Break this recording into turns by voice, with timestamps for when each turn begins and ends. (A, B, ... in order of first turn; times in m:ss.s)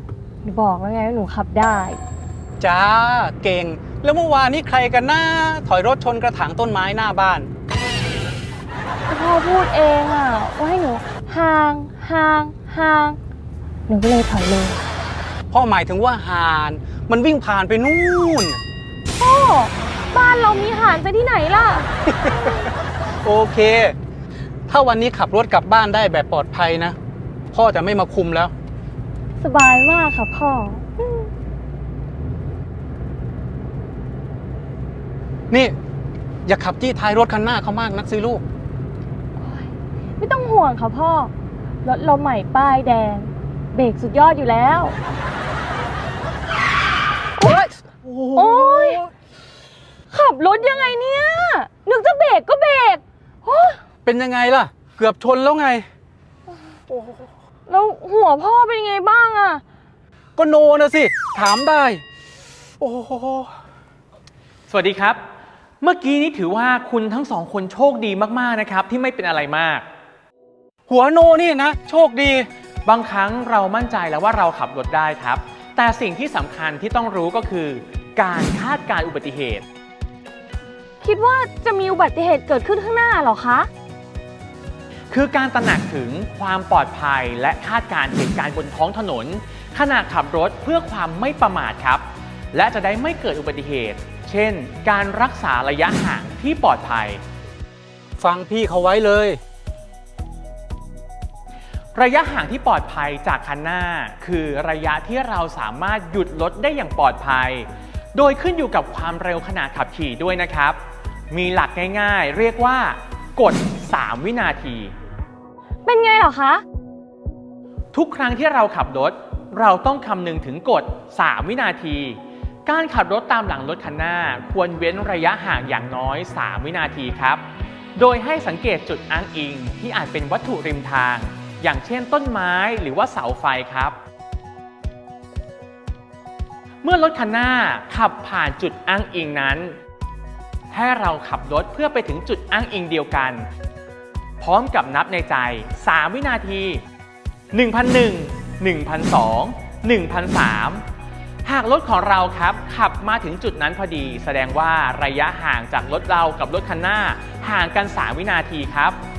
0:00.4-0:02.0 A
0:02.6-0:07.5 B
0:09.1-0:13.2 A
0:13.9-0:14.8 A
0:15.5-0:18.6 B
0:19.2-0:21.9 A
0:22.1-0:22.5 B
0:23.2-0:23.9 B
0:24.7-0:27.0 B
0:27.5-0:28.5 B
0:29.4-0:31.3 A
0:36.4-0:38.4 B
0:39.4-0:41.3 A
0:41.8-0:45.0 A
0:48.0-0:49.1 B
0:48.3-0:49.0 A
0:50.1-0:53.8 A
0:54.0-0:55.8 B
0:57.7-0:59.6 A
1:00.4-1:02.0 B
1:02.8-1:03.5 B
1:04.7-1:05.2 C
1:05.8-1:09.8 C
1:10.9-1:12.5 B
1:12.8-1:19.6 C
1:21.0-1:23.7 A
1:25.1-1:37.2 C
1:38.2-1:39.4 B
1:41.9-1:50.8 C
1:51.3-1:54.9 C
1:55.8-1:56.6 A
1:57.9-2:07.4 C
2:08.0-2:14.0 C
2:16.8-2:19.8 C
2:20.7-2:23.5 C
2:24.4-2:26.8 C
2:27.5-2:30.8 C
2:31.4-2:39.0 C